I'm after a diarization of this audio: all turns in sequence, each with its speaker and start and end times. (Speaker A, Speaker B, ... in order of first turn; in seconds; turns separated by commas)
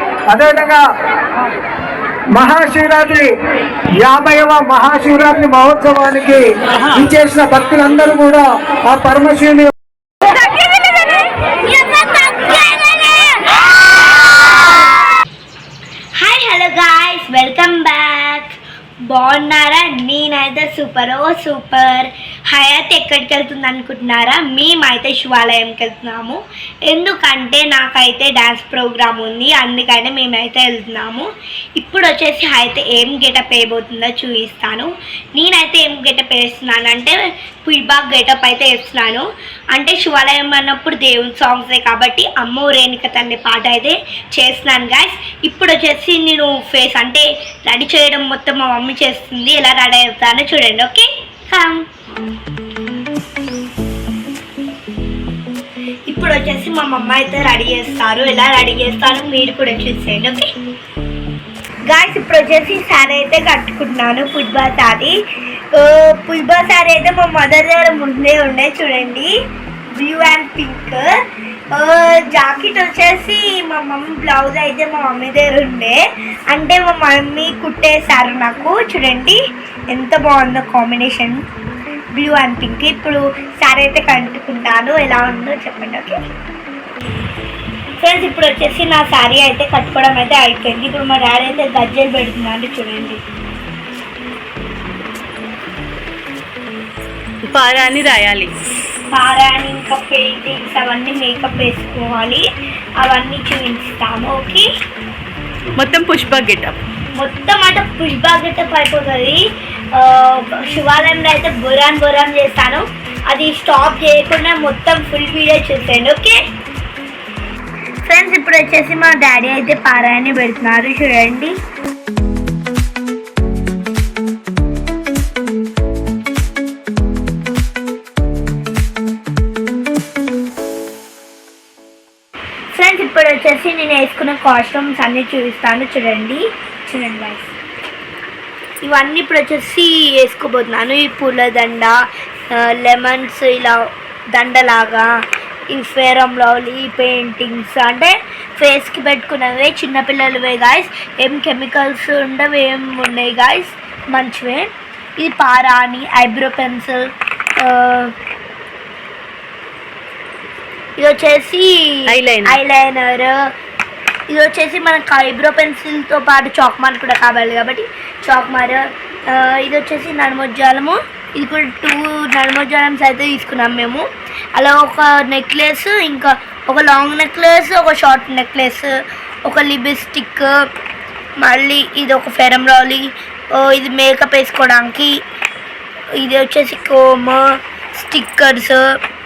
Speaker A: 0.3-0.8, Speaker A: 2.3-3.3, Speaker A: 4.0-9.7, Speaker B: 10.4-13.7, Speaker B: 16.2-18.6, Speaker B: 19.1-51.9, Speaker B: 56.1-60.5, Speaker B: 61.9-65.2, Speaker B: 65.7-69.3, Speaker B: 69.9-71.1, Speaker B: 71.7-79.4, Speaker B: 79.9-81.4, Speaker B: 82.1-86.2, Speaker B: 88.0-93.2, Speaker C: 97.4-98.5, Speaker B: 99.1-102.5, Speaker B: 103.0-104.7, Speaker C: 105.8-106.8, Speaker B: 107.1-116.4, Speaker B: 118.0-121.6, Speaker B: 132.7-137.5, Speaker B: 138.8-142.0, Speaker B: 142.5-143.8, Speaker B: 144.3-145.1, Speaker B: 145.7-158.1, Speaker B: 161.0-163.5, Speaker C: 162.1-162.6, Speaker B: 164.3-180.6, Speaker B: 181.4-185.2, Speaker B: 186.2-189.0